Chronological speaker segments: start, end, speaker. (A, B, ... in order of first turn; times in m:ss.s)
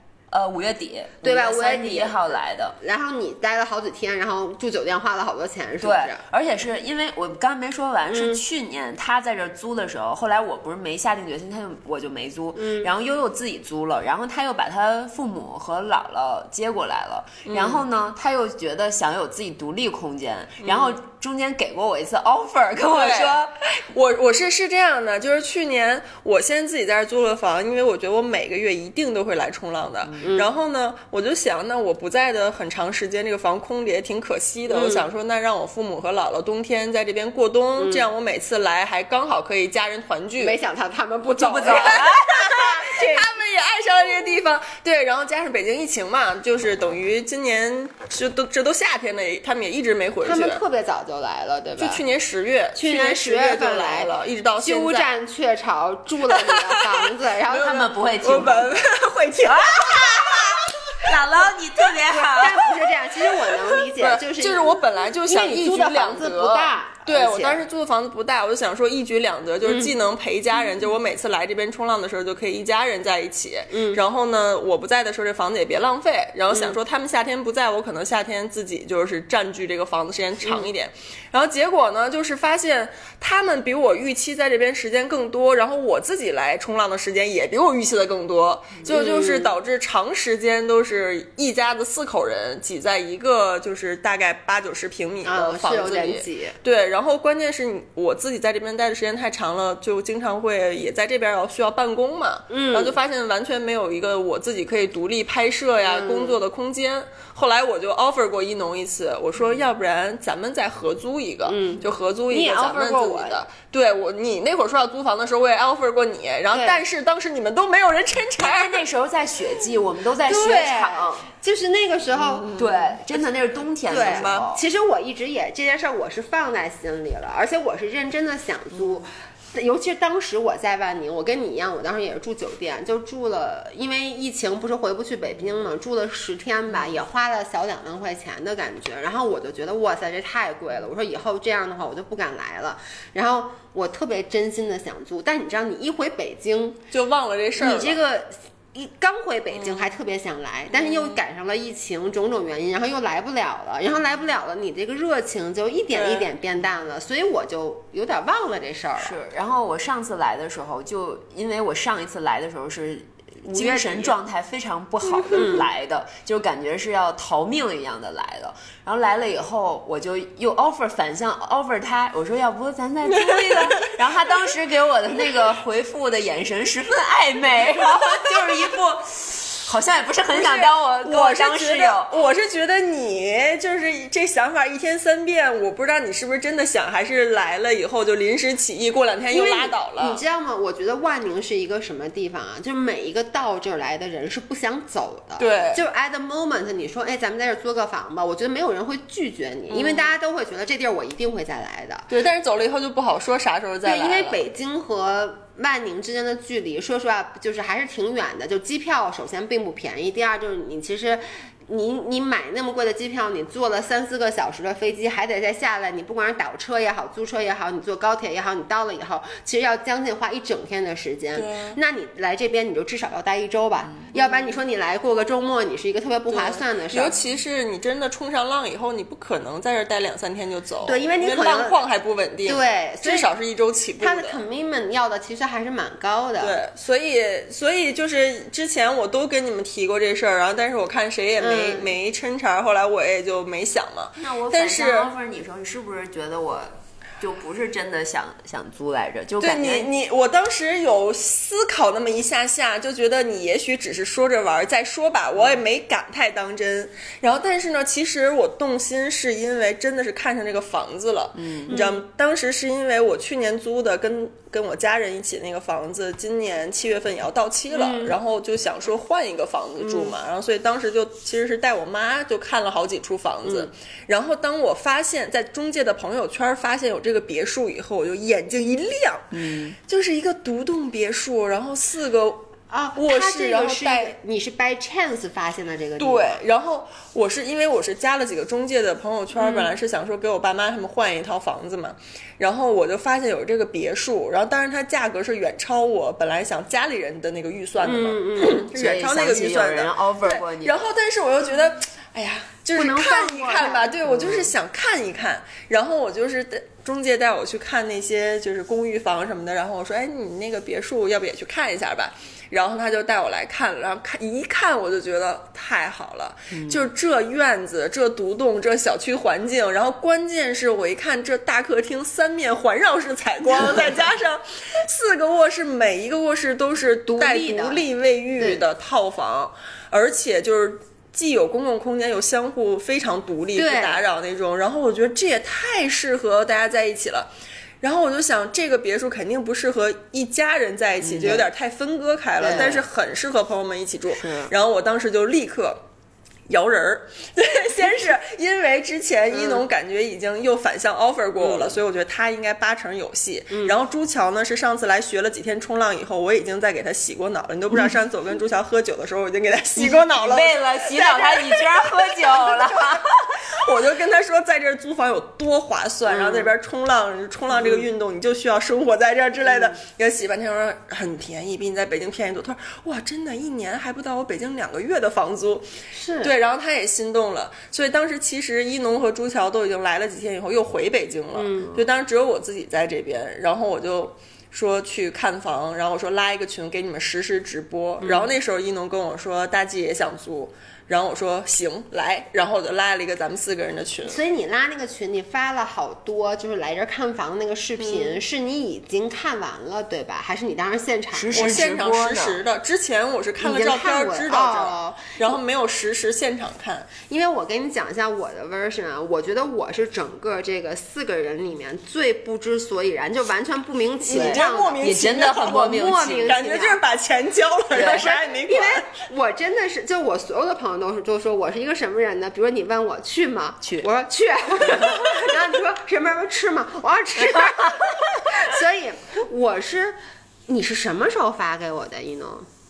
0:00.3-0:02.8 A
0:01.2-0:02.2 B
0:02.8-0:06.2 B
0:05.8-0:23.5 A
0:08.1-0:08.4 B
0:12.6-0:12.9 B
0:17.5-0:17.8 C
0:20.6-0:21.0 C
0:22.9-0:23.4 C
0:23.9-0:40.6 C
0:30.1-0:30.4 A
0:30.2-0:30.5 B
0:34.7-0:35.1 B
0:37.8-0:38.1 B
0:40.4-0:43.3 B
0:41.4-0:42.5 A
0:41.6-0:50.6 C
0:50.2-0:52.0 B
0:51.8-0:55.1 C
0:52.8-0:57.9 B
0:56.3-0:57.1 C
0:57.5-0:58.8 A
0:58.2-1:01.1 C
0:59.4-1:00.5 A
1:01.0-1:02.7 A
1:02.1-1:07.6 B
1:03.7-1:58.8 C
1:09.6-1:09.9 B
1:13.7-1:14.0 B
1:16.5-1:16.8 B
1:20.4-1:20.7 B
1:28.9-1:29.6 B
1:35.2-1:36.6 B
1:42.5-1:43.0 B
1:45.8-1:46.4 B
1:51.4-1:53.4 B
1:56.5-1:56.8 B
1:58.4-2:01.1 A
2:00.2-2:02.9 B
2:02.5-2:04.6 A
2:03.9-2:26.8 B
2:03.9-2:04.5 C
2:26.9-2:28.0 C
2:27.6-2:39.2 B
2:29.6-2:29.9 C
2:30.8-2:31.2 C
2:35.9-2:36.3 C
2:39.0-3:02.1 A
2:43.5-2:44.1 B
2:45.3-2:45.7 B
3:00.3-3:10.2 C
3:09.3-3:22.1 B
3:15.4-3:15.8 C
3:19.7-3:20.1 C
3:22.1-3:24.4 C
3:23.8-3:47.2 B
3:41.4-3:41.8 C
3:46.3-3:54.4 C
3:50.8-3:51.8 B
3:52.5-3:53.3 B
3:54.0-3:56.6 B
3:56.4-4:05.1 C
4:01.4-4:02.0 B
4:04.2-4:09.9 A
4:09.4-4:44.2 C
4:21.4-4:21.8 A
4:21.7-4:22.0 B
4:27.7-4:28.2 B
4:29.8-4:30.1 B
4:33.4-4:33.7 B
4:39.3-4:39.8 A
4:42.7-4:46.4 B
4:46.0-5:37.3 C
4:49.4-4:49.8 B
4:57.8-4:58.7 B
4:58.6-5:00.9 A
5:02.7-5:04.5 B
5:16.5-5:16.8 A
5:27.1-5:27.8 B
5:28.4-5:28.6 B
5:33.5-5:34.0 B
5:37.8-5:45.8 C
5:41.0-5:41.5 A
5:42.4-5:42.8 B
5:44.1-5:44.5 A
5:46.5-6:01.7 C
5:49.3-5:49.6 B
5:51.4-5:51.8 B
5:53.5-5:53.8 B
5:59.8-6:03.4 A
6:02.4-6:03.0 B
6:03.5-6:15.7 C
6:06.1-6:06.5 B
6:07.6-6:07.8 B
6:15.9-6:16.3 B
6:16.2-6:34.2 C
6:21.3-6:21.9 B
6:28.0-6:28.4 B
6:34.0-6:41.6 B
6:37.8-6:38.2 C
6:41.1-6:42.4 A
6:41.3-6:46.9 C
6:43.4-6:45.2 B
6:47.1-6:56.8 B
6:54.1-6:58.9 C
6:54.1-6:56.4 A
6:57.7-6:58.1 A
6:57.8-7:12.5 B
7:03.6-7:03.9 A
7:07.2-7:07.6 A